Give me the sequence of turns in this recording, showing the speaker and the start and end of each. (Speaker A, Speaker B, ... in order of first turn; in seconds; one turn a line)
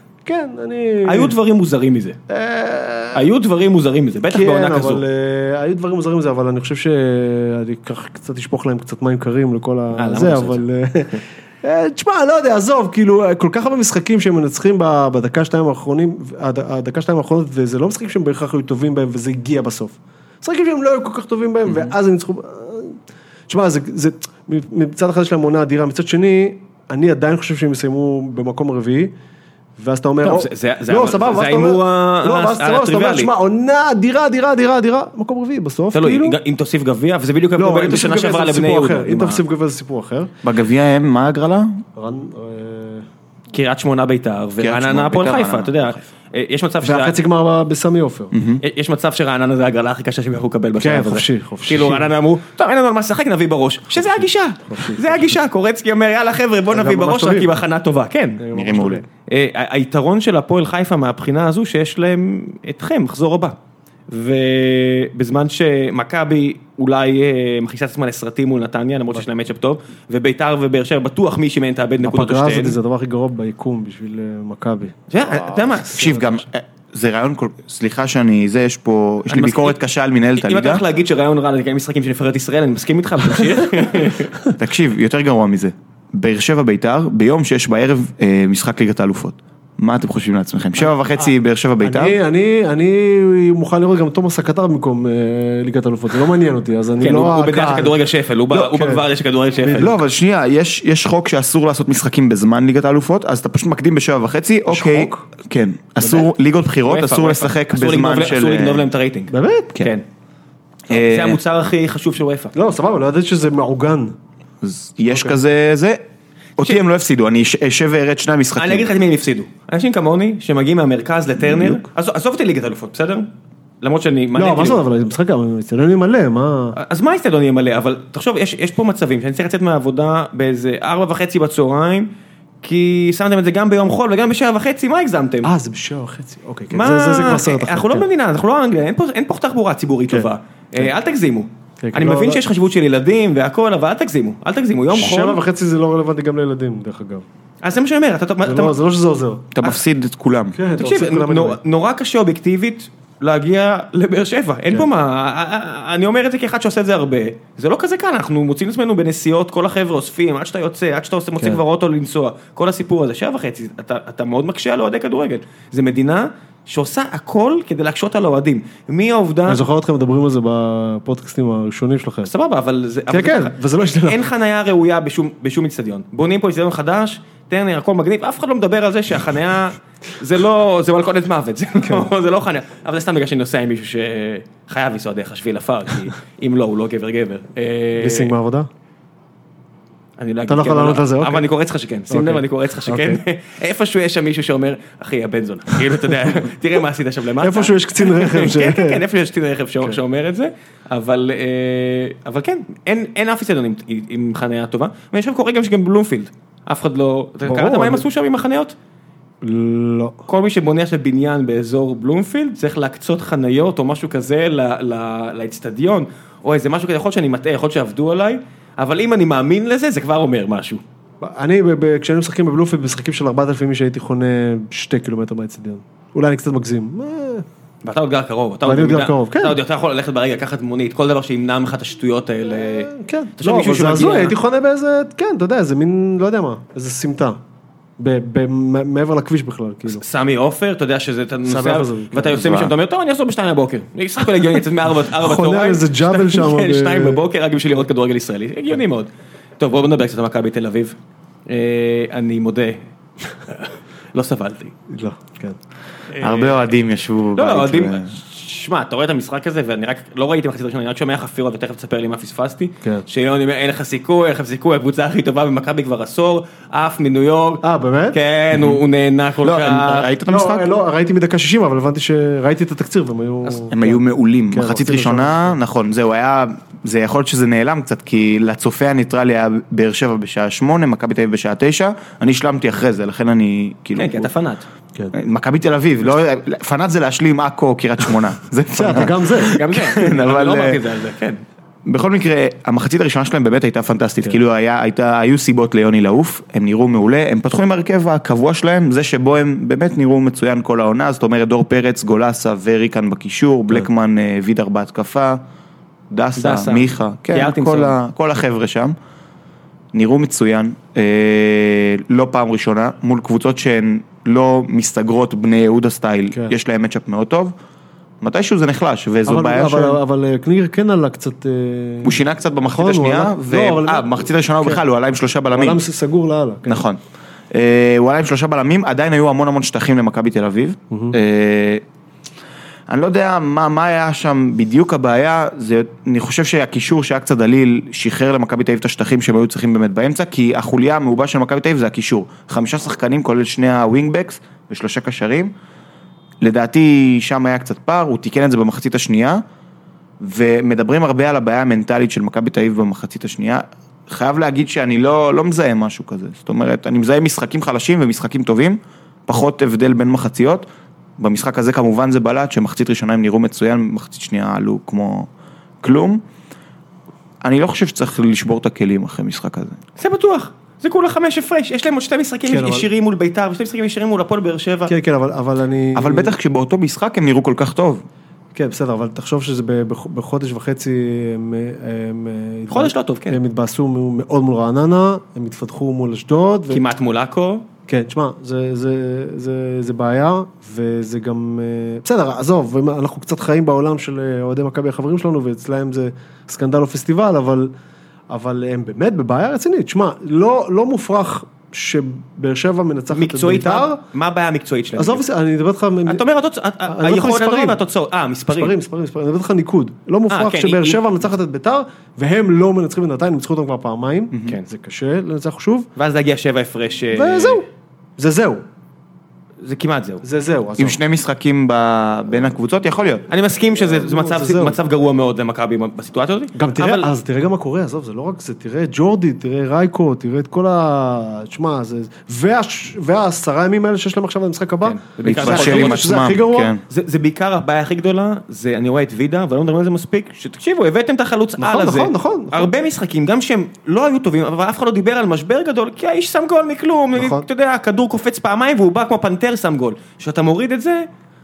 Speaker A: 0.2-1.4
Speaker B: 1.0-2.2
Speaker A: 2.3-3.3
Speaker B: 3.1-5.0
Speaker A: 4.3-29.1
Speaker B: 9.9-10.6
Speaker A: 29.8-36.4
Speaker B: 30.2-33.3
Speaker B: 35.9-39.4
Speaker A: 37.5-40.3
Speaker C: 40.4-41.8
Speaker A: 42.0-43.0
Speaker B: 43.5-47.1
Speaker C: 44.6-46.0
Speaker A: 46.8-48.3
Speaker C: 48.3-48.6
Speaker B: 48.6-58.4
Speaker A: 50.8-52.1
Speaker A: 53.9-55.4
Speaker A: 56.7-57.5
Speaker A: 58.4-59.0
Speaker C: 58.5-59.0
Speaker B: 59.3-63.5
Speaker B: 64.1-72.8
Speaker A: 72.0-75.0
Speaker B: 75.1-76.4
Speaker C: 75.3-80.8
Speaker B: 79.3-79.8
Speaker B: 80.4-84.4
Speaker C: 84.5-92.2
Speaker A: 91.8-98.0
Speaker B: 97.0-100.0
Speaker A: 98.5-99.0
Speaker A: 99.6-100.0
Speaker C: 99.6-108.8
Speaker A: 104.7-105.2
Speaker B: 106.0-106.3
Speaker B: 106.8-110.0
Speaker A: 109.3-109.8
Speaker C: 110.9-111.4
Speaker B: 110.9-112.5
Speaker A: 112.5-114.1
Speaker C: 114.6-116.0
Speaker A: 115.1-115.4
Speaker C: 116.6-118.9
Speaker B: 118.5-123.3
Speaker B: 123.8-124.8
Speaker A: 124.3-126.8
Speaker B: 126.8-132.1
Speaker B: 132.6-135.5
Speaker A: 135.4-138.1
Speaker B: 136.7-145.4
Speaker A: 140.1-140.9
Speaker A: 141.8-142.4
Speaker A: 144.9-147.2
Speaker B: 147.6-148.8
Speaker A: 148.4-149.5
Speaker C: 149.5-150.6
Speaker A: 150.5-151.6
Speaker B: 150.8-169.6
Speaker A: 169.5-172.3
Speaker B: 172.2-188.3
Speaker A: 173.1-174.2
Speaker A: 181.8-182.1
Speaker A: 188.0-188.7
Speaker B: 190.2-208.7
Speaker A: 190.5-191.5
Speaker A: 192.1-193.2
Speaker A: 197.4-199.0
Speaker A: 207.4-208.0
Speaker A: 209.4-210.2
Speaker B: 210.2-220.8
Speaker A: 221.2-227.4
Speaker B: 227.8-234.4
Speaker A: 228.6-229.6
Speaker A: 232.5-237.4
Speaker A: 238.0-240.0
Speaker B: 239.9-250.9
Speaker A: 241.4-242.7
Speaker A: 245.1-247.2
Speaker B: 251.5-254.7
Speaker A: 254.9-255.6
Speaker B: 256.1-256.6
Speaker C: 256.2-258.1
Speaker B: 257.3-270.1
Speaker A: 267.6-268.2
Speaker C: 268.5-268.8
Speaker C: 269.4-270.7
Speaker A: 270.3-274.0
Speaker C: 273.7-284.3
Speaker A: 274.5-275.6
Speaker B: 283.9-284.6
Speaker C: 285.1-290.8
Speaker A: 288.7-289.6
Speaker B: 289.5-291.4
Speaker C: 291.9-305.4
Speaker C: 306.1-308.9
Speaker B: 306.4-307.9
Speaker C: 309.9-317.5
Speaker C: 318.2-320.0
Speaker A: 319.3-324.8
Speaker C: 322.0-325.8
Speaker A: 325.5-326.9
Speaker C: 326.7-327.0
Speaker C: 327.5-331.8
Speaker A: 330.9-331.2
Speaker C: 332.9-345.5
Speaker C: 346.4-349.4
Speaker C: 350.2-360.7
Speaker C: 361.2-365.3
Speaker C: 365.8-366.2
Speaker C: 367.4-369.8
Speaker B: 370.0-374.9
Speaker A: 372.4-372.9
Speaker A: 374.9-376.3
Speaker C: 375.9-378.0
Speaker A: 378.5-386.8
Speaker B: 382.7-383.4
Speaker B: 386.7-387.6
Speaker A: 387.9-397.7
Speaker A: 398.3-404.0
Speaker B: 403.1-405.2
Speaker A: 404.9-406.2
Speaker B: 406.1-408.8
Speaker A: 406.8-407.8
Speaker A: 408.5-415.9
Speaker B: 410.3-411.0
Speaker C: 414.3-414.6
Speaker B: 415.9-417.6
Speaker A: 417.1-417.6
Speaker A: 418.2-418.6
Speaker B: 419.6-420.2
Speaker A: 420.2-421.0
Speaker C: 420.8-423.2
Speaker B: 423.3-427.1
Speaker A: 423.7-424.8
Speaker A: 426.5-436.7
Speaker B: 434.8-436.1
Speaker C: 435.2-436.8
Speaker B: 436.9-451.1
Speaker A: 441.6-442.7
Speaker A: 447.1-447.4